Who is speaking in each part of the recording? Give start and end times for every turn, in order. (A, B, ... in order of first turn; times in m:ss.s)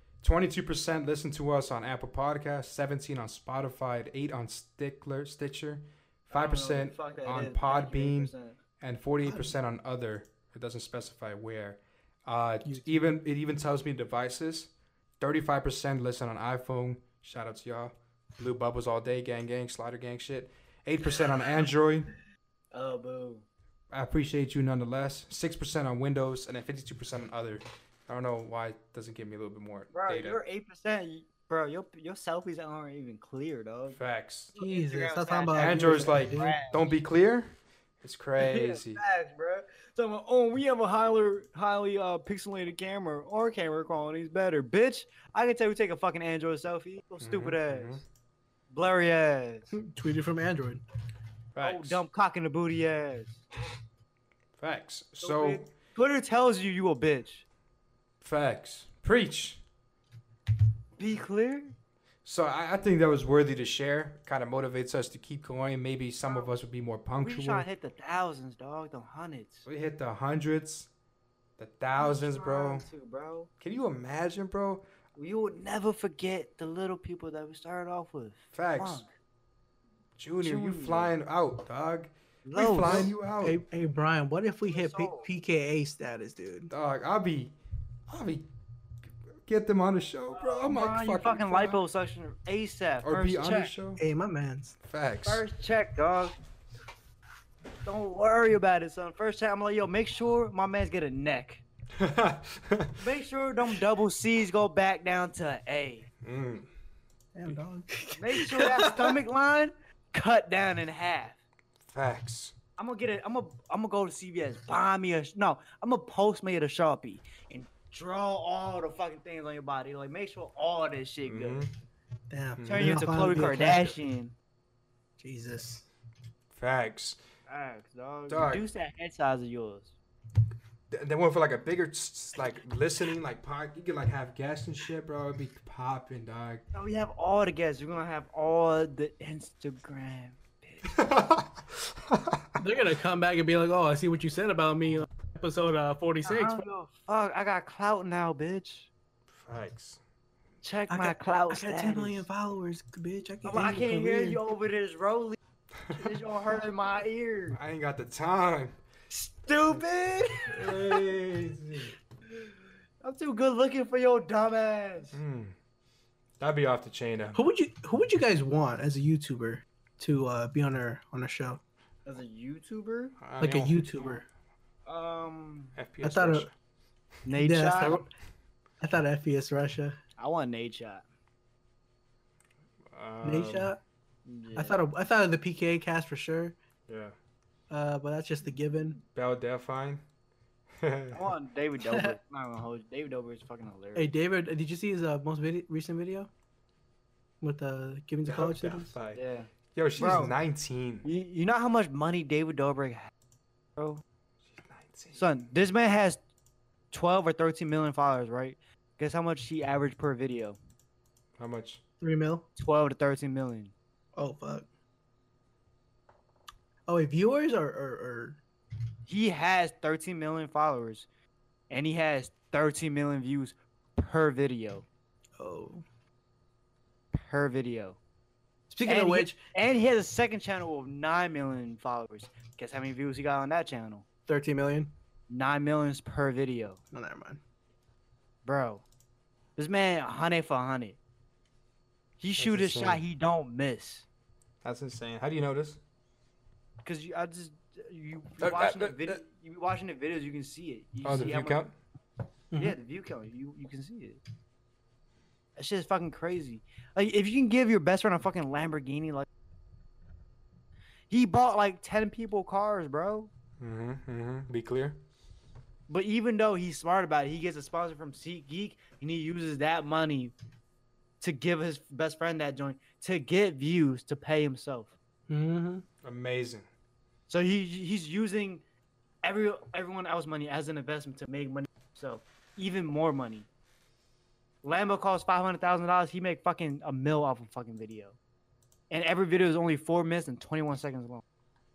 0:00.2-0:22.1 A
0:06.3-0:08.6 B
0:09.2-0:09.5 C
0:12.6-0:12.9 C
0:22.7-0:23.4 B
0:23.9-0:30.4 A
0:29.9-0:34.0 B
0:33.9-0:34.5 A
0:34.6-0:36.6 C
0:34.6-0:36.9 B
0:35.5-0:39.0 A
0:38.4-0:48.0 B
0:47.2-0:48.0 A
0:48.7-0:49.6 B
0:49.7-0:50.8 C
0:51.5-0:52.0 A
0:51.6-0:53.4 B
0:54.6-0:55.6 A
0:55.2-0:57.4 B
0:58.2-0:59.6 A
1:01.0-1:01.7 B
1:02.2-1:07.6 A
1:07.2-1:09.6 B
1:09.6-1:10.9 A
1:11.6-1:12.9 A
1:12.0-1:13.5 B
1:13.6-1:14.8 A
1:15.2-1:19.1 B
1:18.5-1:19.0 A
1:20.2-1:23.6 A
1:20.4-1:21.1 B
1:22.4-1:23.1 B
1:22.9-1:26.7 C
1:24.7-1:25.3 B
1:26.7-1:27.5 A
1:28.1-1:28.4 A
1:29.4-1:31.8 A
1:30.3-1:33.7 B
1:33.0-1:34.0 A
1:34.0-1:34.8 C
1:34.8-1:35.4 A
1:35.2-1:36.4 B
1:37.8-1:41.6 B
1:42.0-1:43.0 A
1:43.0-1:46.1 B
1:46.2-1:46.7 A
1:47.3-1:48.9 C
1:48.2-1:51.4 B
1:51.9-1:52.5 A
1:52.8-2:01.6 B
2:01.2-2:01.7 A
2:02.3-2:04.0 C
2:02.6-2:03.0 A
2:02.7-2:04.3 B
2:05.2-2:05.8 C
2:06.5-2:07.2 A
2:07.5-2:09.9 B
2:08.3-2:08.6 A
2:10.9-2:16.6 A
2:16.7-2:20.9 B
2:20.8-2:22.6 A
2:22.6-2:26.6 C
2:26.2-2:28.9 B
2:29.3-2:30.0 A
2:30.6-2:32.3 B
2:30.9-2:34.4 C
2:33.4-2:37.6 B
2:37.5-2:38.8 A
2:39.1-2:41.1 B
2:40.5-2:41.9 A
2:43.0-2:45.2 B
2:45.1-2:45.5 A
2:46.4-2:47.4 A
2:47.3-2:51.6 C
2:52.0-2:53.2 B
2:53.2-2:53.9 A
2:53.4-2:54.2 C
2:54.8-2:55.7 B
2:55.7-2:56.5 A
2:56.0-2:56.5 C
2:57.2-2:58.0 B
2:57.3-2:58.0 C
2:58.8-3:00.0 C
3:00.2-3:01.0 B
3:02.9-3:03.7 A
3:03.2-3:03.8 C
3:04.2-3:04.8 B
3:04.5-3:06.5 C
3:06.9-3:07.1 A
3:07.7-3:09.0 C
3:09.1-3:10.0 A
3:10.8-3:11.3 A
3:11.1-3:14.1 B
3:11.8-3:12.2 C
3:14.0-3:16.3 C
3:17.4-3:18.9 C
3:18.2-3:19.2 A
3:19.1-3:20.3 B
3:19.7-3:21.0 A
3:21.0-3:23.1 B
3:23.8-3:24.0 B
3:24.4-3:25.2 A
3:25.1-3:26.2 B
3:26.9-3:30.6 B
3:31.4-3:31.8 A
3:32.0-3:32.4 C
3:32.6-3:33.7 B
3:34.2-3:34.7 C
3:36.9-3:38.4 C
3:39.1-3:41.1 B
3:41.7-3:44.8 B
3:45.4-3:45.8 C
3:47.1-3:48.0 B
3:48.7-3:49.4 C
3:48.8-3:54.0 B
3:54.3-3:54.9 C
3:55.3-3:56.8 B
3:56.9-3:57.4 C
3:58.4-3:58.8 B
3:59.6-4:01.0 B
4:02.2-4:04.0 B
4:02.4-4:03.0 A
4:04.6-4:05.8 A
4:06.8-4:11.6 B
4:08.4-4:09.2 A
4:11.0-4:11.7 A
4:12.5-4:12.8 C
4:12.6-4:14.2 B
4:15.6-4:19.2 B
4:21.1-4:23.3 B
4:23.6-4:25.0 A
4:25.9-4:30.3 B
4:31.2-4:34.9 B
4:35.3-4:35.8 C
4:36.0-4:36.7 A
4:37.3-4:38.6 B
4:39.2-4:43.5 B
4:44.6-4:48.2 B
4:48.9-4:51.2 B